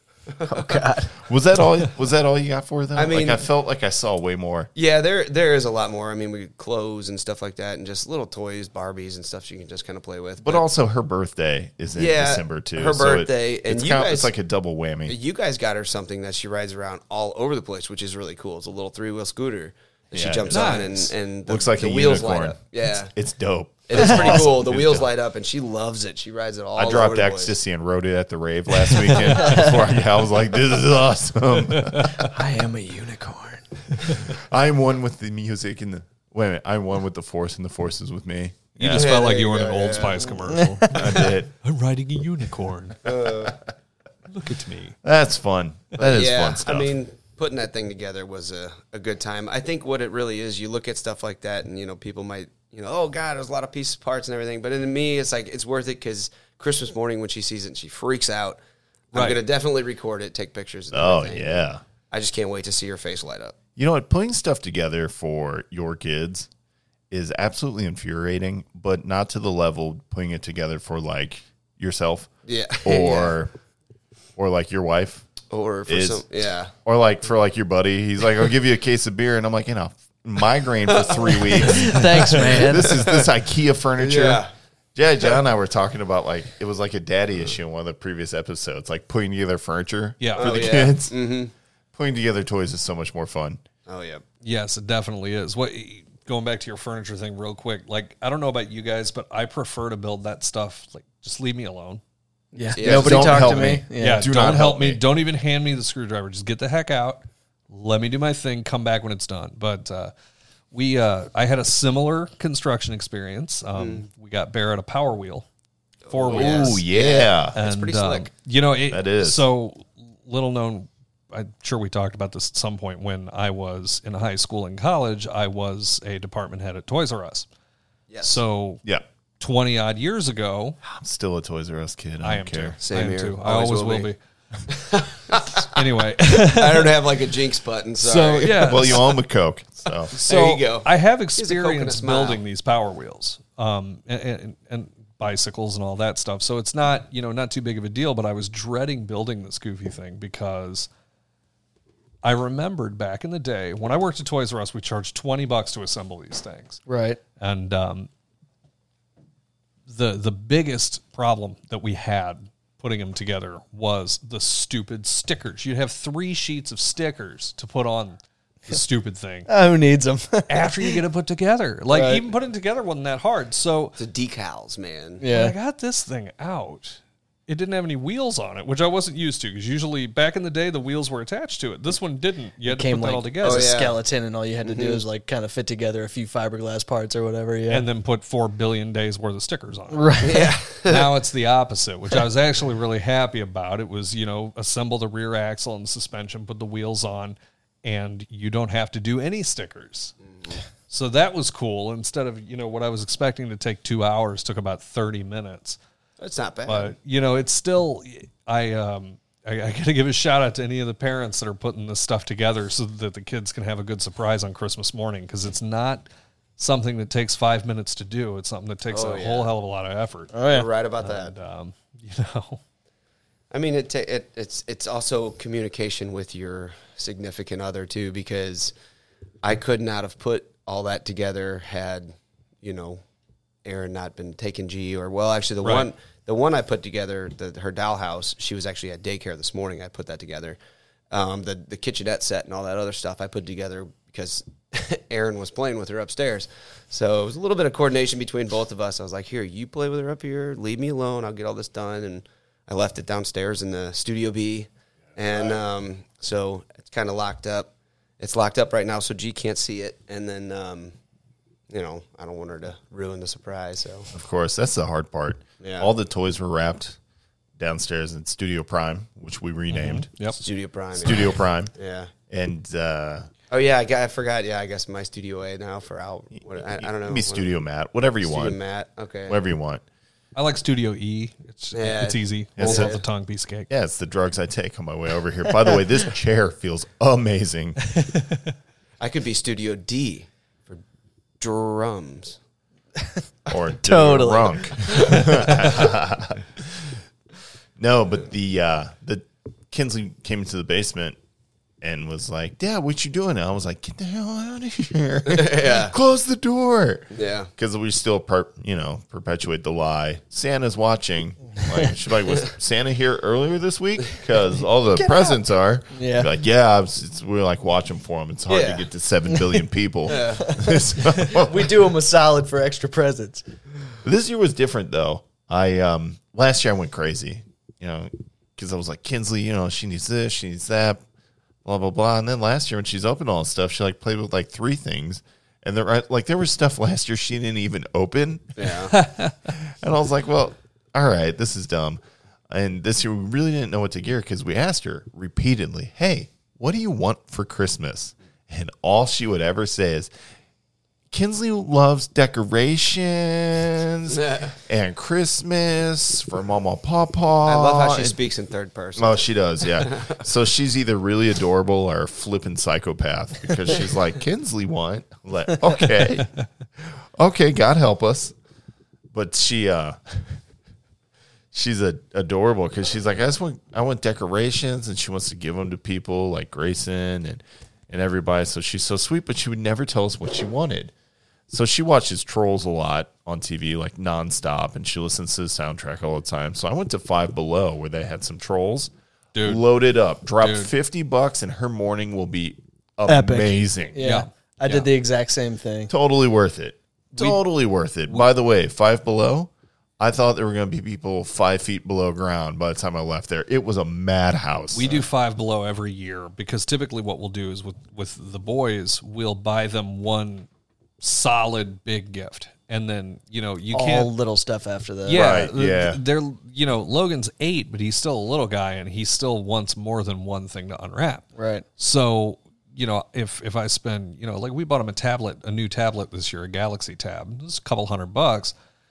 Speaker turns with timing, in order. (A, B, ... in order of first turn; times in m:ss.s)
0:00.3-0:00.8 A
0:00.5-0:01.1 B
0:01.1-0:04.7 C
0:02.9-0:03.4 A
0:04.8-0:10.6 A
0:10.4-0:15.2 C
0:12.0-0:14.3 A
0:15.1-0:23.1 A
0:20.1-0:25.1 C
0:20.5-0:21.1 D
0:23.9-0:27.6 A
0:26.8-0:32.2 C
0:31.8-0:32.1 D
0:32.2-0:34.0 B
0:34.2-0:39.1 C
0:38.8-0:43.0 D
0:38.9-0:40.3 A
0:40.9-0:41.5 C
0:43.0-0:43.6 A
0:44.3-0:45.0 D
0:45.0-0:47.0 C
0:46.0-0:58.6 A
0:59.1-1:03.6 A
0:59.1-0:59.4 D
1:00.9-1:01.8 C
1:03.8-1:06.5 C
1:07.1-1:12.3 C
1:12.5-1:13.4 A
1:12.8-1:13.5 C
1:14.4-1:15.3 C
1:15.5-1:16.7 A
1:15.9-1:16.2 C
1:16.8-1:31.2 C
1:20.9-1:21.8 A
1:21.7-1:22.9 B
1:22.8-1:23.3 A
1:24.0-1:24.5 A
1:30.2-1:30.8 D
1:30.4-1:31.5 A
1:32.0-1:33.6 C
1:33.9-1:34.2 A
1:34.4-1:42.0 D
1:42.5-1:44.3 B
1:42.7-1:43.6 A
1:42.8-1:45.0 C
1:44.0-1:50.1 D
1:50.7-1:55.5 D
1:53.8-1:54.0 A
1:56.1-1:58.3 A
1:56.1-1:56.8 D
1:56.3-1:57.6 C
1:57.6-2:07.5 D
1:58.9-1:59.5 C
2:08.1-2:08.4 A
2:08.2-2:08.8 D
2:09.4-2:10.8 D
2:10.8-2:12.8 C
2:12.2-2:14.2 D
2:12.8-2:14.1 A
2:14.7-2:19.0 A
2:15.6-2:17.2 D
2:18.0-2:19.2 D
2:18.5-2:20.1 C
2:20.1-2:22.4 A
2:20.2-2:30.9 D
2:32.2-2:36.8 D
2:36.9-2:37.2 B
2:37.4-2:38.1 D
2:39.9-2:49.5 D
2:49.5-2:51.0 B
2:50.5-2:54.0 D
2:51.9-2:52.3 B
2:54.0-2:55.2 A
2:55.2-2:55.6 B
2:55.3-3:03.7 D
3:02.6-3:07.9 B
3:03.4-3:04.0 A
3:04.6-3:05.0 A
3:07.7-3:10.3 D
3:09.9-3:10.5 B
3:10.2-3:11.1 A
3:10.9-3:20.2 D
3:20.3-3:20.6 A
3:20.9-3:25.8 D
3:26.2-3:26.9 A
3:26.7-3:36.1 D
3:36.6-3:40.4 D
3:38.9-3:39.5 A
3:40.3-3:40.7 B
3:40.5-3:41.3 A
3:41.0-3:42.6 D
3:43.5-3:48.7 A
3:49.4-3:53.0 A
3:53.6-4:00.6 A
3:55.6-3:55.9 D
4:01.1-4:21.0 A
4:21.7-4:24.1 A
4:24.1-4:27.0 C
4:25.6-4:25.9 A
4:27.6-4:30.1 C
4:29.7-4:30.4 D
4:30.4-4:32.1 A
4:31.0-4:31.7 C
4:32.3-4:33.3 C
4:33.5-4:37.5 A
4:36.4-4:38.6 C
4:38.2-4:39.4 A
4:39.3-4:39.8 C
4:40.4-4:43.7 D
4:41.7-4:43.0 A
4:42.6-4:42.9 C
4:43.7-4:47.9 C
4:49.0-4:50.8 A
4:51.4-4:52.4 A
4:53.5-4:57.0 C
4:53.8-4:55.1 B
4:57.8-5:01.2 C
5:01.8-5:21.8 C
5:05.3-5:05.9 A
5:07.1-5:07.5 A
5:15.0-5:15.4 B
5:15.9-5:16.3 B
5:18.5-5:18.8 A
5:20.1-5:20.6 A
5:20.4-5:23.4 B
5:24.0-5:31.0 C
5:31.6-5:38.7 C
5:38.6-5:39.0 A
5:38.9-5:39.4 D
5:39.5-5:50.1 C
5:51.1-5:58.2 C
5:54.1-5:54.6 A
5:57.5-6:00.2 A
5:59.0-6:06.3 C
6:07.2-6:08.3 C
6:09.1-6:10.4 C
6:11.5-6:20.9 C
6:21.5-6:34.0 C
6:29.4-6:29.6 D
6:30.4-6:30.7 D
6:33.1-6:35.9 B
6:34.0-6:34.9 D
6:35.9-6:45.1 C
6:44.7-6:50.5 D
6:51.0-6:54.1 D
6:53.7-6:55.2 B
6:55.1-7:01.3 D
6:55.1-6:56.0 C
7:01.4-7:01.6 B
7:01.8-7:08.5 D